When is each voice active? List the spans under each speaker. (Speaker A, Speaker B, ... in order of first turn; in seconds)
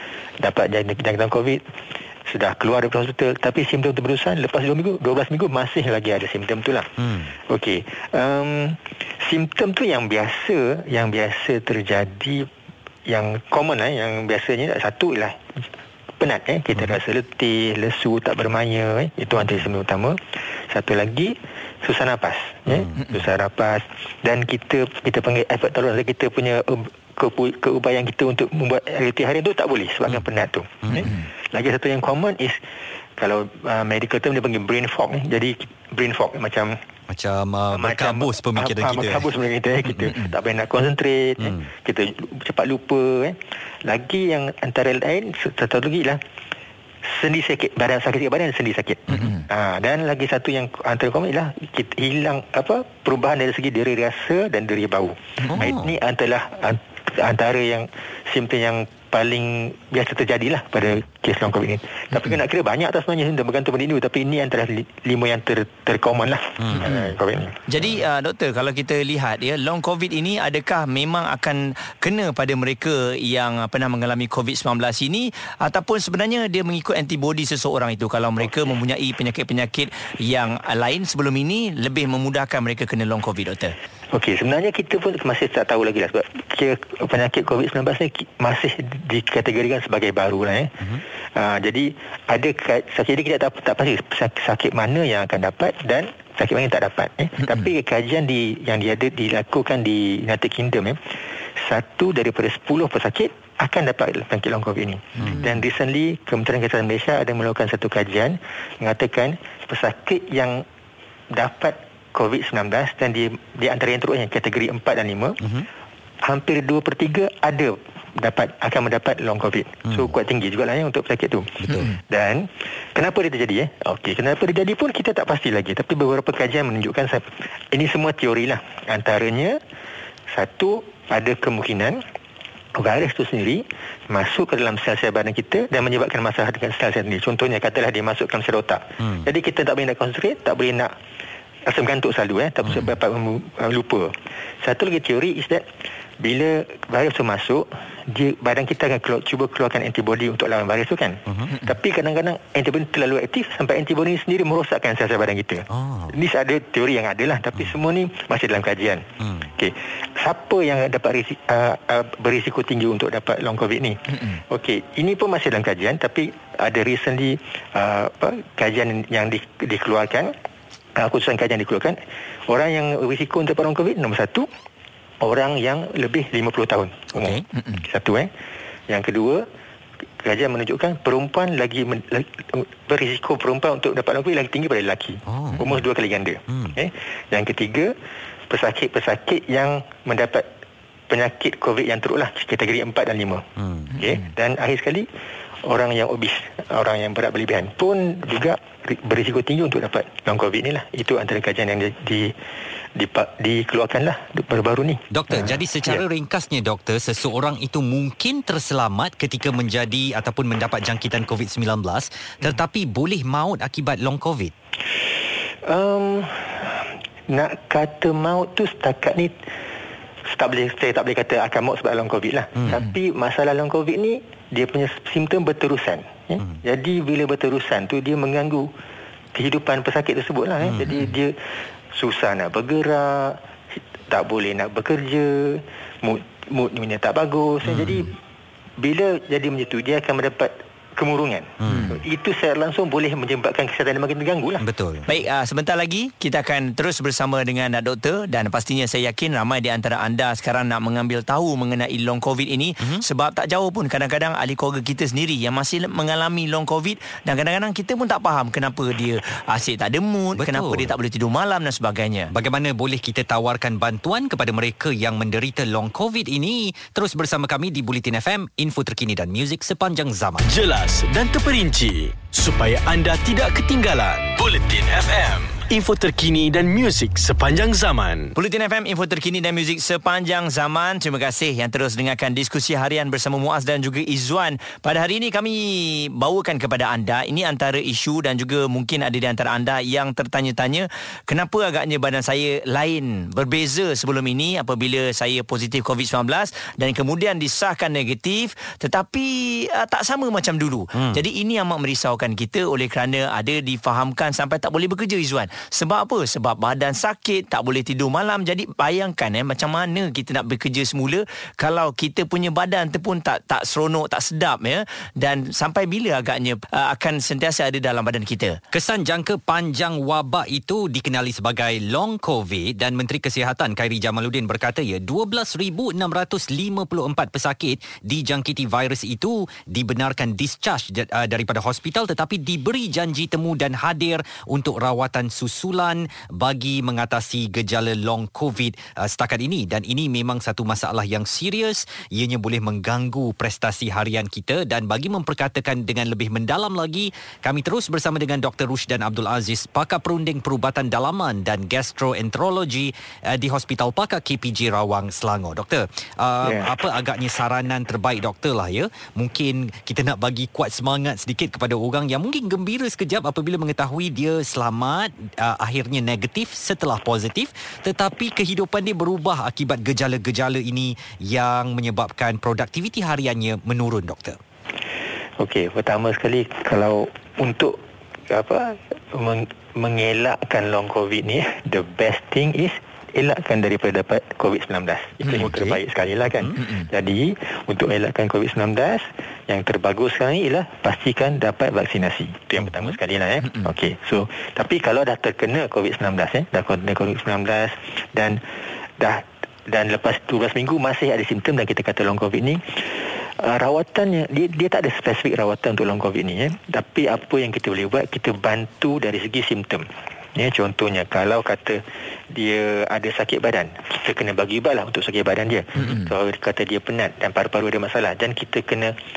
Speaker A: 0.4-1.6, 2.3-6.9, 7.5-12.5, 13.1-15.4, 16.2-20.2, 20.7-32.6, 33.2-36.8, 37.8-46.2, 47.1-67.6, 84.1-90.8, 91.3-101.0, 101.6-110.7, 111.3-115.4, 116.2-129.6, 130.3-132.0, 132.8-140.9, 141.7-145.7, 146.2-170.3, 170.9-174.5, 175.2-178.3, 178.9-179.4, 180.2-187.9, 188.5-190.4, 191.1-195.1, 195.7-202.3, 202.9-206.0, 215.7-219.4, 220.3-228.7, 229.3-231.3, 231.9-233.4, 234.1-238.2, 238.8-244.6, 375.4-377.8, 378.3-398.4, 399.0-419.0
Speaker B: 7.0-7.3, 22.7-23.0, 37.1-39.3, 41.4-41.7, 55.5-56.0, 66.6-66.9, 115.4-115.7, 121.6-121.9, 139.0-139.2, 151.3-151.5, 155.7-156.2, 159.2-159.5, 177.1-177.4, 185.2-185.8, 186.5-186.8, 193.6-193.9, 205.1-214.5, 230.6-230.9, 237.7-238.1, 241.6-241.9, 244.6-245.1, 260.4-260.9, 262.3-270.5, 300.9-301.2, 318.7-374.4, 385.4-385.8, 392.6-392.9
Speaker C: 49.1-49.5, 66.8-67.1, 67.7-83.7, 105.2-105.5, 164.1-164.4, 177.6-177.8, 245.1-262.3, 278.4-318.6
Speaker D: 270.4-278.3